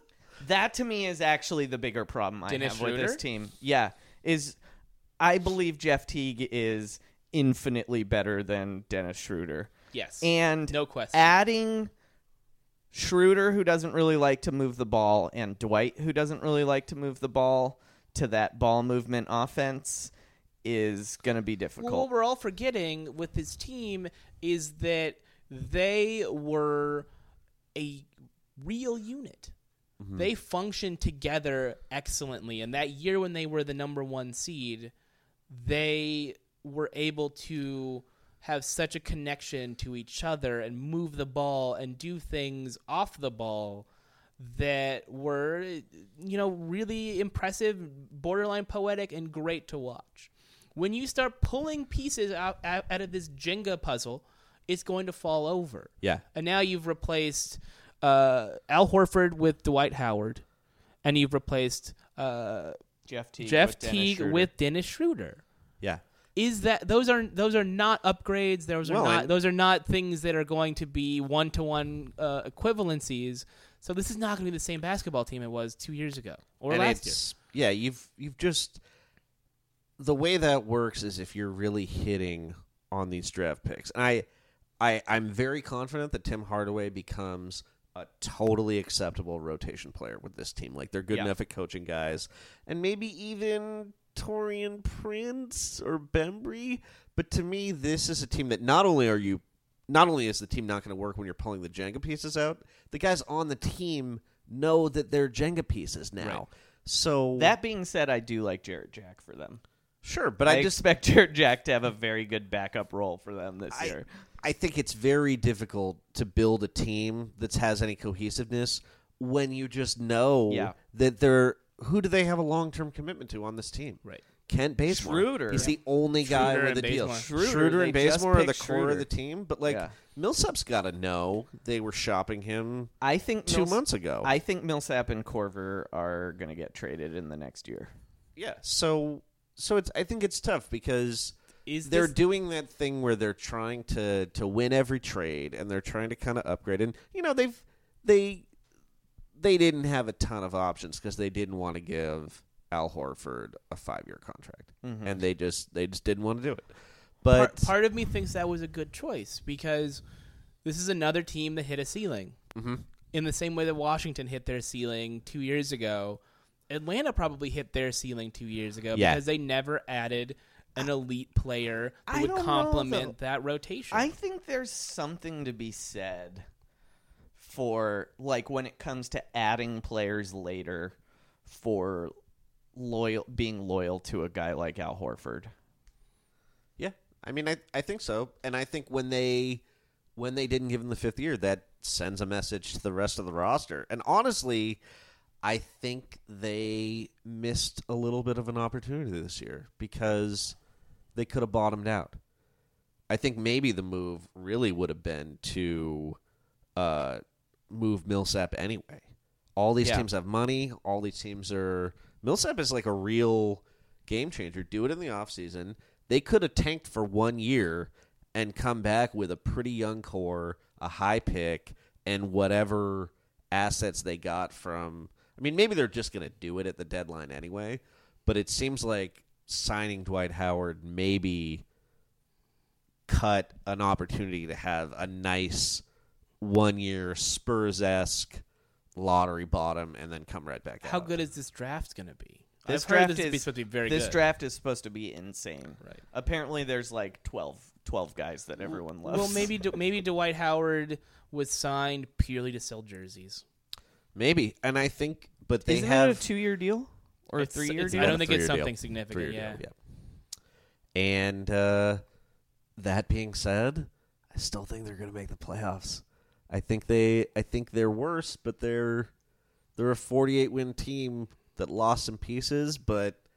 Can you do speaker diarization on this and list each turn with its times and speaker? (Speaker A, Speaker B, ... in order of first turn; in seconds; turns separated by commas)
Speaker A: 0.4-4.6, Speaker B: 2.5-3.2, Speaker A: 5.2-11.9, Speaker B: 9.9-11.3, Speaker A: 12.9-20.1, Speaker A: 20.6-22.1, Speaker B: 21.8-27.1, Speaker B: 27.7-29.5, Speaker C: 30.0-30.3, Speaker B: 30.1-34.9, Speaker B: 35.5-43.9, Speaker B: 44.4-60.4, Speaker B: 61.0-62.8, Speaker A: 63.1-64.5, Speaker B: 63.4-65.4, Speaker B: 66.4-77.2, Speaker C: 68.8-69.3, Speaker C: 76.7-78.8, Speaker C: 80.0-84.3, Speaker C: 84.8-107.5, Speaker A: 107.4-109.6, Speaker C: 110.0-110.8, Speaker A: 110.5-114.1, Speaker C: 113.7-132.9, Speaker A: 120.5-120.8, Speaker A: 124.9-125.7, Speaker B: 125.5-127.2, Speaker A: 127.1-129.1, Speaker A: 129.7-129.9, Speaker A: 133.0-137.9, Speaker C: 133.5-134.3, Speaker C: 138.4-148.5, Speaker B: 141.7-142.2, Speaker C: 149.4-157.7, Speaker A: 154.8-155.2, Speaker B: 157.3-160.0, Speaker B: 160.6-162.4, Speaker C: 162.5-162.8, Speaker B: 163.1-174.1, Speaker C: 168.9-169.2, Speaker A: 172.1-173.1, Speaker A: 173.9-176.5, Speaker A: 177.4-182.1, Speaker A: 182.8-185.5, Speaker C: 186.8-189.6, Speaker C: 190.2-194.8, Speaker C: 195.4-200.6, Speaker C: 201.1-202.2, Speaker C: 203.1-206.2, Speaker C: 206.8-231.6, Speaker C: 233.1-235.8, Speaker C: 236.4-238.4, Speaker C: 238.9-241.2, Speaker B: 240.8-244.2, Speaker A: 242.7-249.5, Speaker B: 249.0-253.4, Speaker C: 254.1-256.2, Speaker A: 255.7-258.2, Speaker B: 257.4-259.6, Speaker C: 257.9-259.8, Speaker C: 260.9-262.0, Speaker C: 262.8-269.1, Speaker C: 269.8-273.2